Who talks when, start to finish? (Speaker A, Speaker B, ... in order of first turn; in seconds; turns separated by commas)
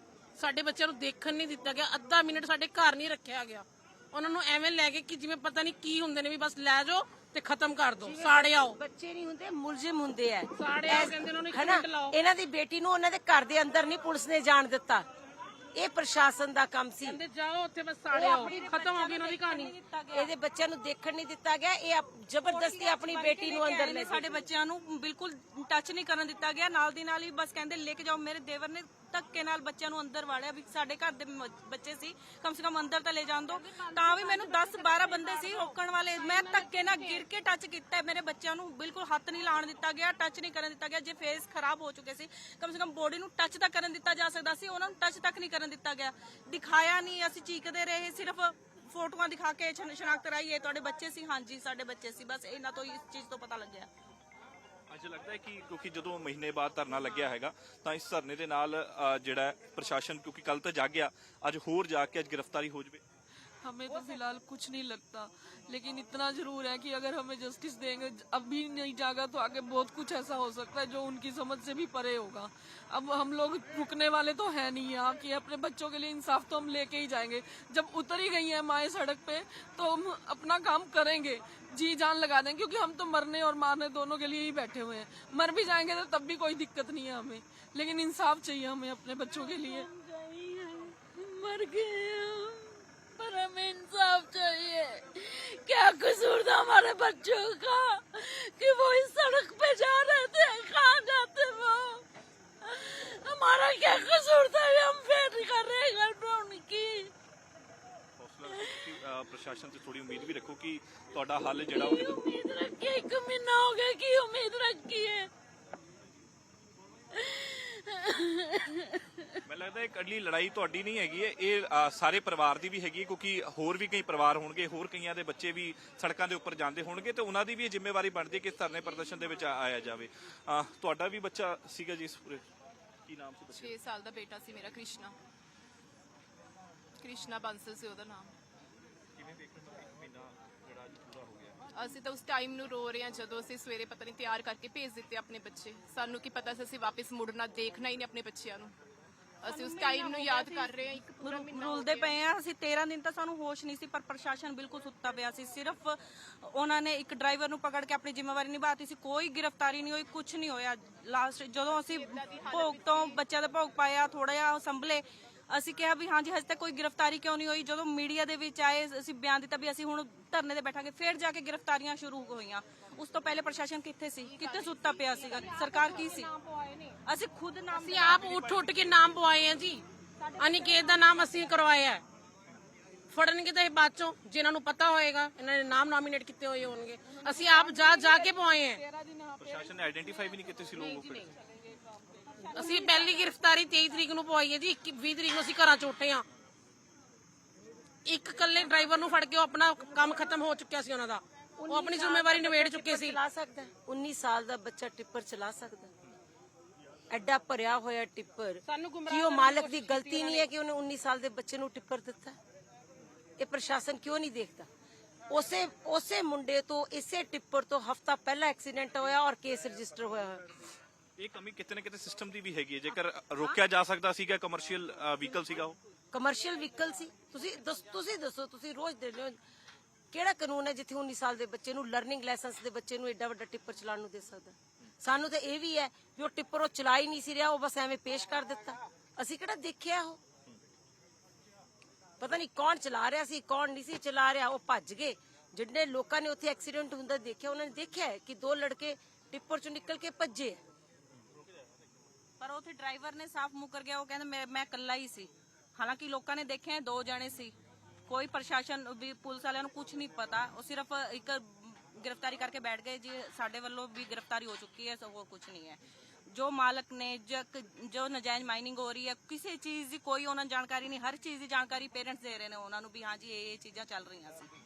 Speaker A: 0.4-8.8, Speaker B: 8.0-15.1, Speaker A: 10.6-12.2, Speaker B: 15.8-17.2, Speaker A: 17.0-19.8, Speaker C: 18.1-20.3, Speaker B: 18.2-18.5, Speaker B: 20.1-24.4, Speaker C: 22.4-53.9, Speaker A: 33.5-37.2, Speaker D: 54.9-63.0, Speaker E: 63.6-89.9, Speaker C: 63.9-64.2, Speaker F: 89.2-102.0, Speaker F: 102.6-107.1, Speaker D: 108.2-112.1, Speaker F: 111.7-115.3, Speaker F: 117.1-119.0, Speaker D: 119.5-132.4, Speaker D: 133.1-133.8, Speaker G: 133.5-135.1, Speaker G: 137.0-138.3, Speaker D: 139.2-141.6, Speaker G: 141.7-148.7, Speaker G: 149.4-152.2, Speaker C: 149.5-176.3, Speaker G: 161.8-163.2, Speaker G: 174.2-176.3, Speaker A: 175.7-176.9, Speaker C: 177.1-178.8, Speaker A: 177.7-179.8, Speaker A: 180.3-182.0, Speaker A: 183.1-189.4, Speaker D: 189.4-191.3, Speaker A: 190.8-191.3, Speaker A: 192.4-196.2, Speaker A: 198.1-203.2, Speaker B: 201.6-205.9, Speaker B: 207.1-212.4, Speaker A: 208.7-210.5, Speaker B: 213.4-214.7, Speaker B: 215.3-220.5, Speaker D: 221.2-225.8, Speaker B: 226.1-229.4, Speaker B: 230.1-240.2, Speaker B: 242.2-250.6, Speaker C: 252.4-257.5, Speaker C: 258.1-265.8, Speaker C: 266.3-274.5